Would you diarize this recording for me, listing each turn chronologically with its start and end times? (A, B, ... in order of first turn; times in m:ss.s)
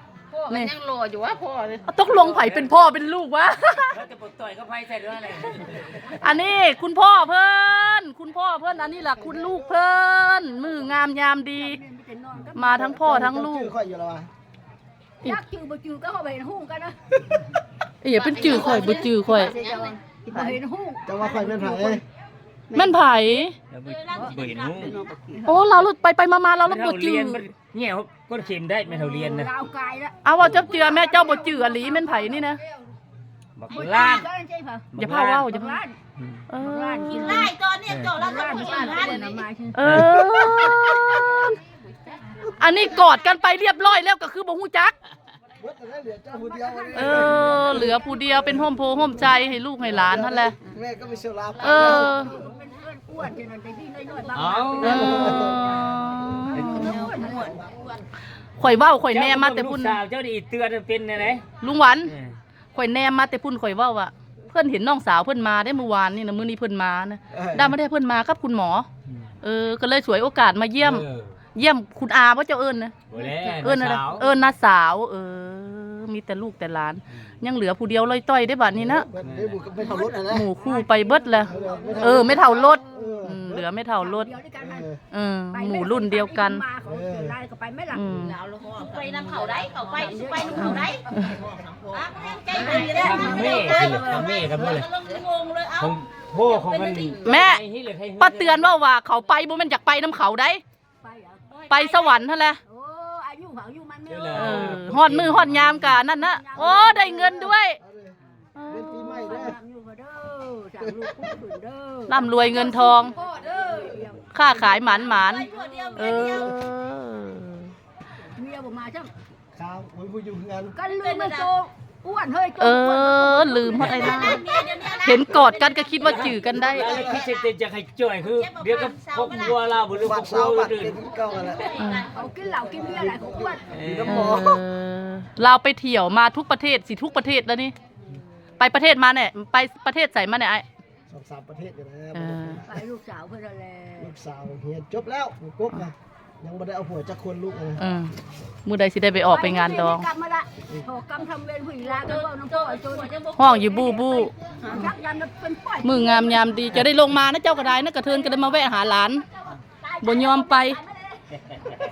0:00.3-0:01.9 A
0:00.5-0:00.7 B
0:01.9-0:04.0 B
0:02.0-0:02.8 C
0:03.9-0:06.0 C
0:06.0-0:11.8 B
0:08.9-0:09.8 D
0:11.6-0:12.7 E
0:12.5-0:13.7 B
0:12.6-0:14.3 D
0:15.2-0:17.0 E
0:18.0-0:19.6 B
0:18.4-0:20.0 A
0:19.4-0:22.0 E
0:21.0-0:22.0 D
0:22.7-0:23.6 B
0:23.7-0:25.0 C
0:23.9-0:25.2 A
0:25.4-0:27.4 B
0:26.6-0:29.5 C
0:28.9-0:32.3 E
0:30.2-0:32.6 B
0:30.4-0:30.7 C
0:33.6-0:34.3 C
0:33.7-0:34.9 E
0:33.7-0:34.0 A
0:34.9-0:35.5 C
0:35.0-0:35.8 B
0:35.5-0:36.0 E
0:36.5-0:37.4 B
0:36.6-0:37.6 E
0:37.0-0:39.4 A
0:37.9-0:38.1 C
0:38.1-0:40.7 E
0:39.7-0:41.5 B
0:39.8-0:40.1 C
0:41.2-0:41.5 E
0:42.6-0:44.9 B
0:45.6-0:49.2 D
0:46.3-0:48.7 E
0:46.9-0:50.5 B
0:49.8-0:52.3 D
0:51.6-0:52.3 B
0:51.7-0:56.0 E
0:54.3-0:55.2 C
0:54.8-0:57.1 B
0:54.8-0:55.7 D
0:56.5-0:57.7 E
0:56.5-0:57.1 C
0:57.4-0:58.0 D
0:58.6-1:00.0 B
0:59.1-1:01.4 C
1:01.6-1:02.1 B
1:02.0-1:02.3 C
1:02.7-1:08.9 B
1:07.3-1:07.8 D
1:09.4-1:11.0 B
1:10.8-1:11.3 C
1:11.5-1:12.9 B
1:13.1-1:14.2 C
1:13.6-1:19.1 B
1:18.8-1:20.5 D
1:19.2-1:19.6 C
1:19.8-1:24.3 B
1:20.6-1:23.2 E
1:21.4-1:23.7 D
1:24.0-1:24.9 E
1:24.6-1:25.0 D
1:25.1-1:26.6 B
1:25.5-1:28.2 E
1:26.8-1:27.3 D
1:27.9-1:28.4 B
1:28.2-1:31.0 A
1:29.6-1:31.4 E
1:31.3-1:32.1 D
1:31.9-1:37.2 A
1:32.5-1:34.9 C
1:35.8-1:38.7 C
1:37.2-1:37.6 B
1:38.2-1:40.6 B
1:41.0-1:41.6 E
1:41.6-1:42.2 A
1:41.7-1:42.6 B
1:42.6-1:44.8 E
1:44.1-1:46.0 C
1:44.3-1:47.8 B
1:46.0-1:47.4 E
1:47.8-1:48.1 D
1:48.6-1:49.3 B
1:48.7-1:49.6 D
1:48.8-1:56.5 E
1:50.8-1:51.3 D
1:52.1-1:53.1 B
1:54.3-1:57.7 B
1:55.2-1:56.6 A
1:58.4-1:59.1 E
1:59.5-2:00.8 D
2:00.7-2:04.6 E
2:00.9-2:01.5 A
2:02.6-2:04.5 B
2:03.7-2:04.1 C
2:04.0-2:07.4 A
2:05.0-2:07.1 B
2:06.0-2:11.0 C
2:06.8-2:07.3 D
2:08.3-2:09.6 A
2:09.9-2:11.8 D
2:11.2-2:12.2 A
2:11.8-2:12.1 B
2:12.1-2:13.7 E
2:12.5-2:14.6 D
2:13.7-2:14.3 C
2:14.0-2:17.7 B
2:18.6-2:20.6 B
2:21.1-2:22.7 D
2:22.1-2:22.6 B
2:22.6-2:24.1 E
2:24.0-2:27.8 D
2:27.8-2:28.1 B
2:28.6-2:30.1 B
2:29.3-2:33.2 E
2:31.9-2:34.2 A
2:33.3-2:34.8 B
2:34.6-2:36.6 E
2:35.8-2:39.2 B
2:39.8-2:41.2 E
2:40.0-2:40.8 B